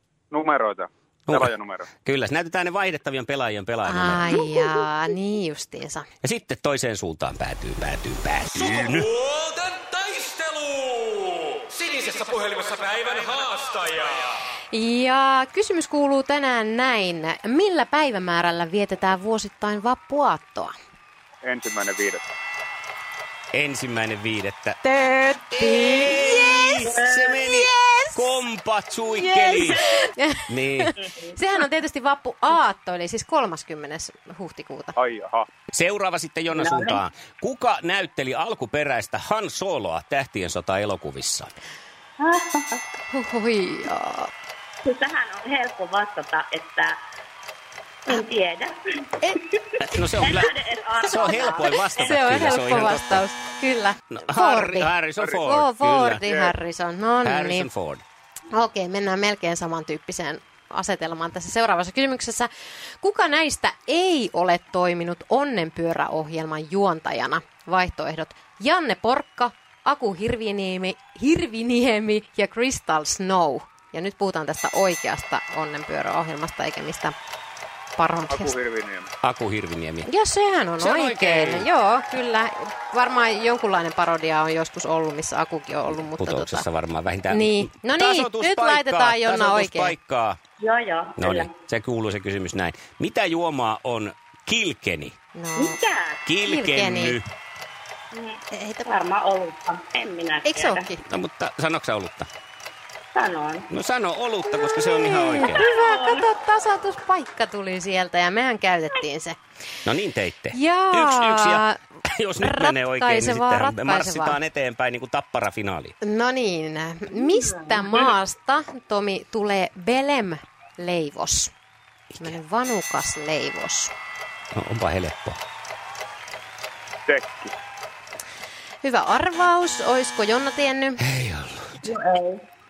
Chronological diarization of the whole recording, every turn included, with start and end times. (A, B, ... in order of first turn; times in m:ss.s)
0:00.3-0:01.8 A
0:01.3-0:04.4 B
0:03.8-0:06.1 C
0:06.2-0:09.1 B
0:08.6-0:11.2 D
0:11.7-0:14.1 D
0:14.7-0:20.7 C
0:21.4-0:22.2 A
0:23.5-0:24.8 B
0:24.8-0:28.2 C
0:25.6-0:29.8 B
0:26.8-0:27.3 E
0:29.2-0:35.0 C
0:30.5-0:31.0 B
0:35.0-0:35.4 A
0:35.7-0:41.5 B
0:36.5-0:37.0 E
0:42.2-0:42.8 E
0:43.1-0:44.3 C
0:44.8-0:47.0 E
0:48.0-0:49.1 E
0:49.8-0:53.2 B
0:50.2-0:52.5 E
0:51.1-0:57.7 C
0:54.1-0:56.2 B
0:57.2-0:58.0 B
0:58.5-1:17.1 C
1:18.0-1:18.5 C
1:18.3-1:19.1 A
1:19.2-1:20.1 B
1:20.0-1:26.6 C
1:20.8-1:21.7 B
1:26.1-1:30.4 B
1:27.3-1:29.9 C
1:30.6-1:31.5 E
1:31.2-1:35.2 B
1:35.3-1:35.8 C
1:35.6-1:36.2 E
1:36.2-1:37.2 B
1:36.4-1:37.2 C
1:38.1-1:40.9 E
1:38.5-1:38.9 C
1:40.4-1:41.0 C
1:41.1-1:42.3 B
1:43.1-1:43.7 E
1:43.7-1:45.6 B
1:44.8-1:49.4 C
1:45.6-1:46.2 E
1:49.8-1:55.9 B
1:50.5-1:51.8 C
1:52.4-1:54.4 C
1:56.0-2:01.5 C
2:02.2-2:03.9 C
2:04.5-2:05.4 B
2:07.1-2:07.5 A
2:08.8-2:11.0 C
2:11.0-2:11.9 B
2:11.8-2:12.4 E